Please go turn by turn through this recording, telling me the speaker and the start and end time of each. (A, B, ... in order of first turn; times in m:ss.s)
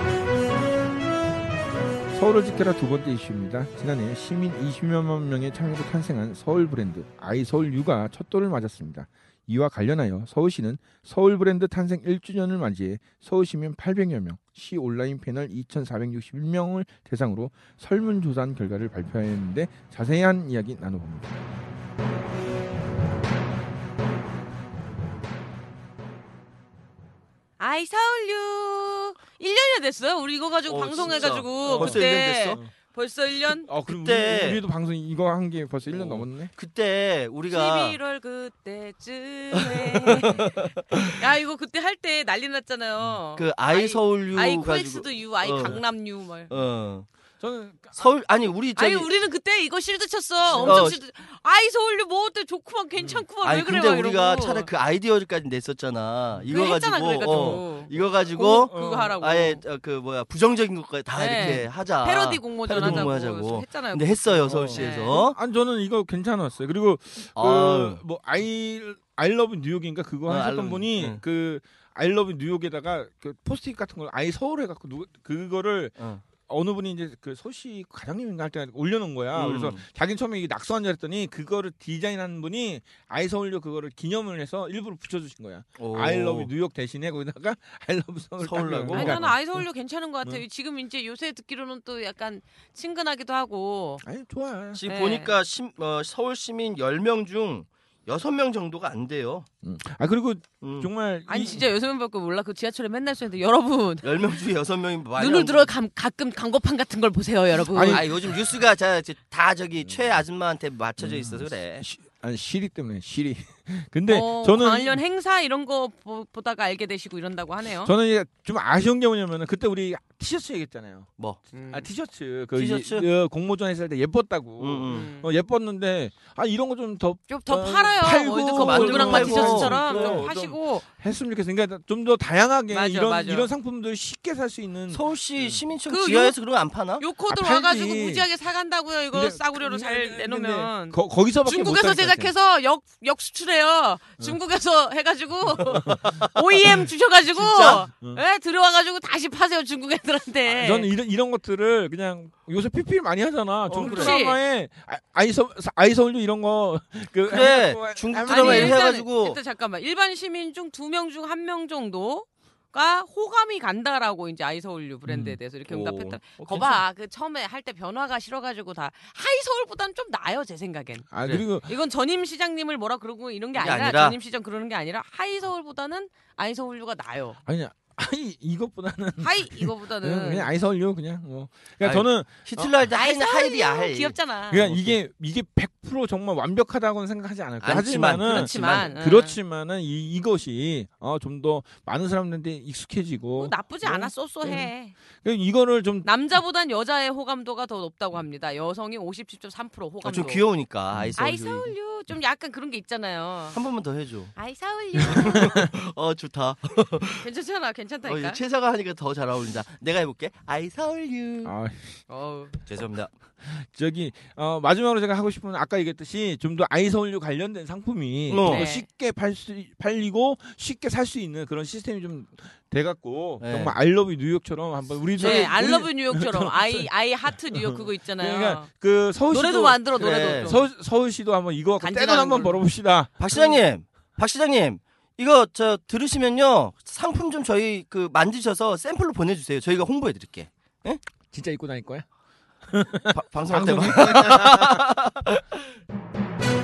0:02.1-0:21.4 A
0:27.6-0:33.7 B
0:30.7-0:32.6 C
0:31.0-0:32.7 A
0:33.6-0:36.5 A
0:33.8-0:34.6 C
0:35.8-0:38.0 C
0:37.5-0:46.5 B
0:39.5-0:41.1 C
0:43.3-0:45.8 C
0:46.5-0:47.1 C
0:47.4-0:48.0 A
0:48.0-0:49.1 C
0:48.8-0:54.7 B
0:50.4-0:51.0 A
0:50.6-0:51.0 C
0:53.0-0:53.2 A
0:53.4-1:05.4 C
0:56.3-0:56.6 A
0:56.5-0:59.6 B
0:57.2-0:59.2 A
1:01.1-1:05.2 B
1:02.8-1:03.1 A
1:04.4-1:29.6 A
1:07.4-1:08.0 C
1:10.3-1:11.2 C
1:16.0-1:16.2 C
1:19.3-1:19.8 C
1:25.8-1:26.5 C
1:28.4-1:29.3 C
1:28.9-1:34.0 B
1:34.0-1:34.8 A
1:34.7-1:39.5 C
1:34.9-1:35.3 B
1:39.6-1:41.7 A
1:40.6-1:40.9 C
1:41.3-1:44.4 B
1:44.0-1:45.7 C
1:45.2-1:48.1 B
1:47.7-1:48.1 A
1:47.7-1:51.8 C
1:51.0-1:55.0 A
1:54.1-1:57.9 B
1:57.8-2:01.1 A
2:01.5-2:01.9 B
2:01.7-2:15.6 A
2:02.5-2:03.1 C
2:04.6-2:05.1 C
2:04.9-2:05.3 B
2:07.3-2:10.8 B
2:08.5-2:10.2 C
2:12.7-2:13.5 B
2:14.9-2:17.0 C
2:15.9-2:16.4 B
2:17.0-2:30.9 B
2:17.3-2:18.3 A
2:19.1-2:22.3 A
2:25.7-2:26.1 A
2:27.3-2:27.8 C
2:27.8-2:28.2 A
2:30.6-2:38.8 A
2:33.7-2:34.1 C
2:33.8-2:34.4 B
2:37.2-2:39.4 C
2:38.3-2:51.1 B
2:45.1-2:45.4 A
2:45.7-2:46.8 C
2:51.1-2:51.7 A
2:51.6-2:57.4 B
2:53.6-2:54.2 C
2:57.4-3:02.7 A
2:59.2-3:00.5 B
3:01.8-3:05.0 C
3:02.9-3:04.6 B
3:04.5-3:14.7 A
3:07.6-3:09.0 C
3:08.3-3:09.4 B
3:13.4-3:14.9 B
3:15.2-3:16.1 A
3:16.0-3:20.4 B
3:20.0-3:21.7 C
3:21.2-3:23.6 B
3:23.5-3:24.3 C
3:24.3-3:25.6 B
3:25.0-3:27.2 C
3:27.2-3:28.4 B
3:28.0-3:31.5 C
3:31.4-3:32.0 A
3:32.1-3:32.6 B
3:32.7-3:33.1 C
3:33.4-3:46.9 A
3:38.3-3:38.7 C
3:38.4-3:38.9 B
3:43.4-3:43.7 C
3:45.2-3:45.6 C
3:45.2-3:48.7 B
3:47.5-3:53.6 A
3:49.3-3:50.6 B
3:49.9-3:50.5 C
3:51.8-3:52.6 B
3:53.2-4:01.0 C
4:01.3-4:02.0 A
4:02.7-4:04.8 A
4:03.1-4:05.4 C